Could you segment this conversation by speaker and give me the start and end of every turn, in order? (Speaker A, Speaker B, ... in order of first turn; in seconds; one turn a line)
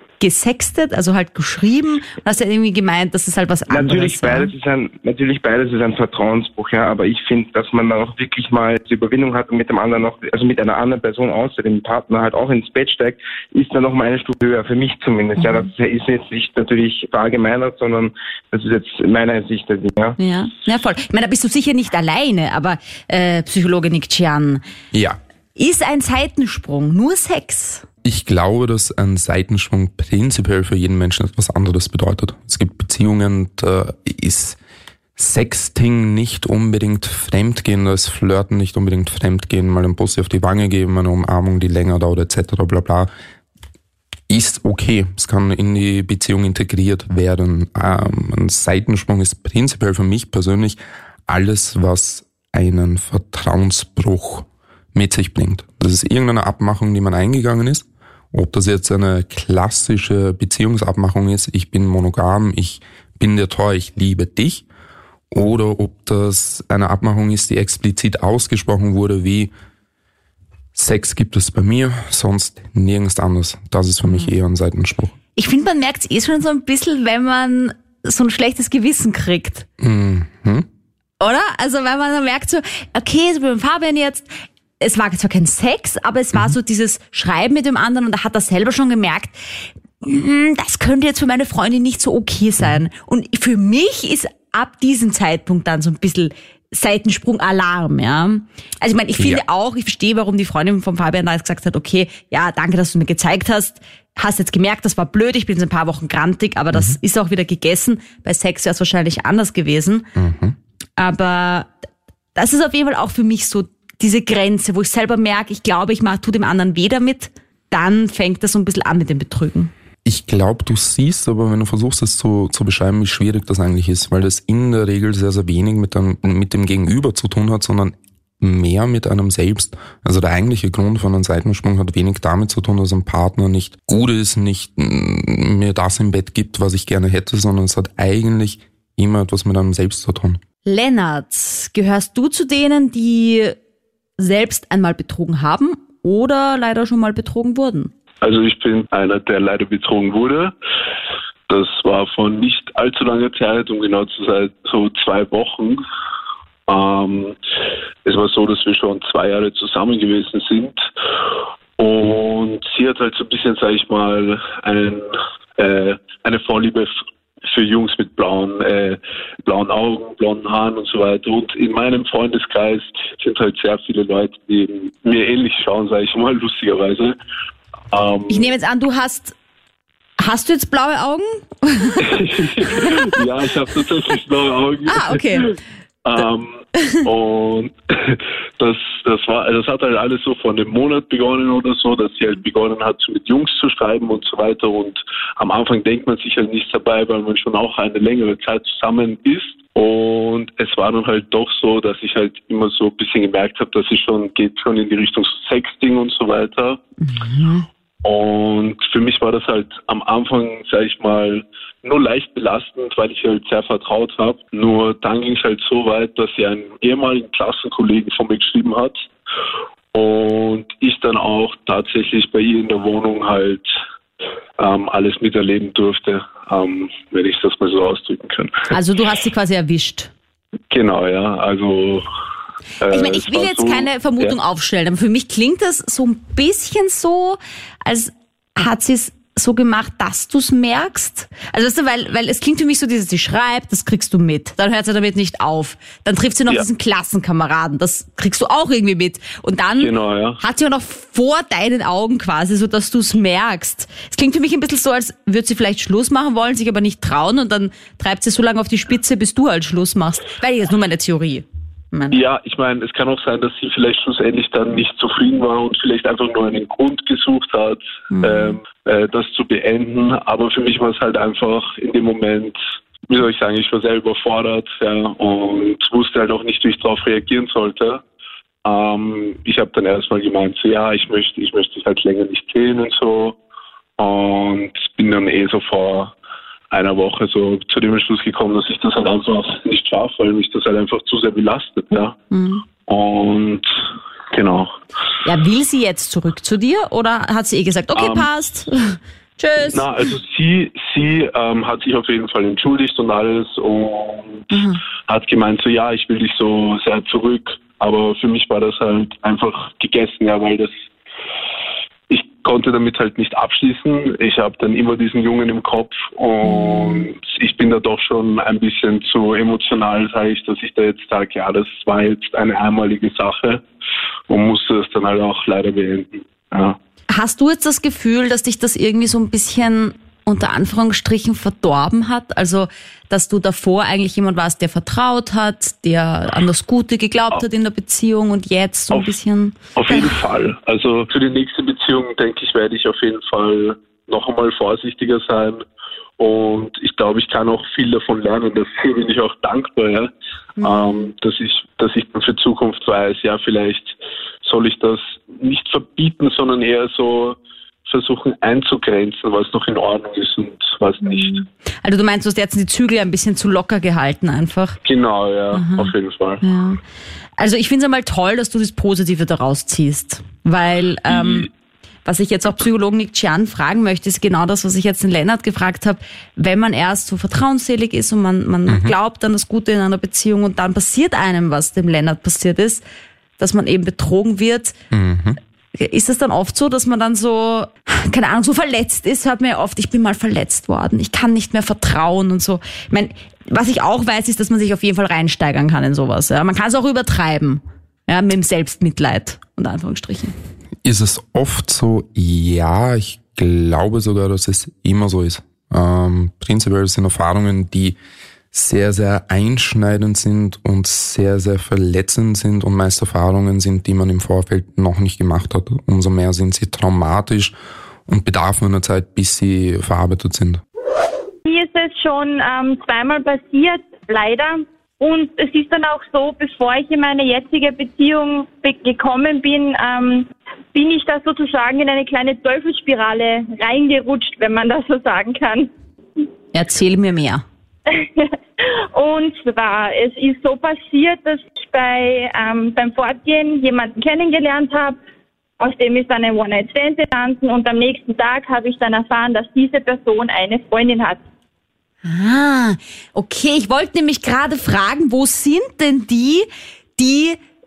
Speaker A: 0.2-4.5
Speaker B: 3.7-20.2
Speaker A: 15.4-15.7
Speaker A: 20.2-24.6
Speaker C: 24.9-25.2
Speaker A: 25.6-27.8
Speaker C: 28.0-34.6
Speaker C: 35.2-43.1
Speaker C: 44.3-64.6
Speaker C: 65.3-69.5
Speaker C: 70.7-75.1
Speaker A: 75.4-79.7
Speaker C: 79.8-80.7
Speaker A: 81.2-89.3
Speaker A: 90.0-110.0
Speaker C: 99.2-99.4
Speaker C: 110.2-110.5
Speaker A: 111.0-111.7
Speaker A: 112.3-119.7
Speaker C: 120.0-140.4
Speaker A: 140.7-143.6
Speaker A: 144.2-147.9
Speaker D: 148.2-150.5
Speaker D: 151.5-155.8
Speaker D: 156.7-157.3
Speaker D: 158.0-160.8
Speaker D: 161.8-166.9
Speaker D: 167.4-177.1
Speaker D: 177.9-178.5
Speaker A: 178.3-179.3
Speaker A: 180.2-183.2
Speaker D: 182.0-185.5
Speaker A: 184.9-185.6
Speaker D: 186.0-206.8
Speaker A: 186.8-187.0
Speaker A: 207.0-207.7
Speaker D: 208.0-218.9
Speaker D: 219.9-223.6
Speaker D: 224.6-228.7
Speaker A: 228.7-230.1
Speaker D: 230.7-232.1
Speaker D: 232.8-234.3
Speaker A: 232.9-262.2
Speaker D: 249.8-250.4
Speaker D: 262.1-278.0
Speaker A: 268.1-268.6
Speaker D: 278.6-283.4
Speaker D: 284.0-286.1
Speaker D: 286.7-292.2
Speaker A: 292.3-292.6
Speaker D: 292.8-293.6
Speaker D: 294.3-294.7
Speaker A: 295.2-299.8
Speaker D: 297.9-298.3
Speaker D: 299.7-304.5
Speaker A: 304.5-304.8
Speaker D: 305.1-310.7
Speaker D: 312.1-323.6
Speaker A: 316.5-317.1
Speaker D: 324.3-326.8
Speaker A: 327.1-340.1
Speaker D: 339.7-345.6
Speaker D: 346.2-350.1
Speaker A: 350.6-351.1
Speaker D: 350.6-361.4
Speaker A: 361.0-364.8
Speaker D: 364.8-366.4
Speaker A: 365.5-366.8
Speaker A: 367.4-371.5
Speaker D: 371.1-371.5
Speaker A: 372.0-382.8
Speaker C: 378.7-378.9
Speaker A: 383.4-384.8
Speaker C: 384.9-385.4
Speaker A: 385.7-400.3
Speaker C: 400.8-408.0
Speaker C: 408.5-417.5
Speaker C: 418.1-420.6
Speaker E: 421.4-435.7
Speaker A: 436.5-437.4
Speaker E: 437.9-445.0
Speaker E: 445.6-451.2
Speaker A: 452.0-457.4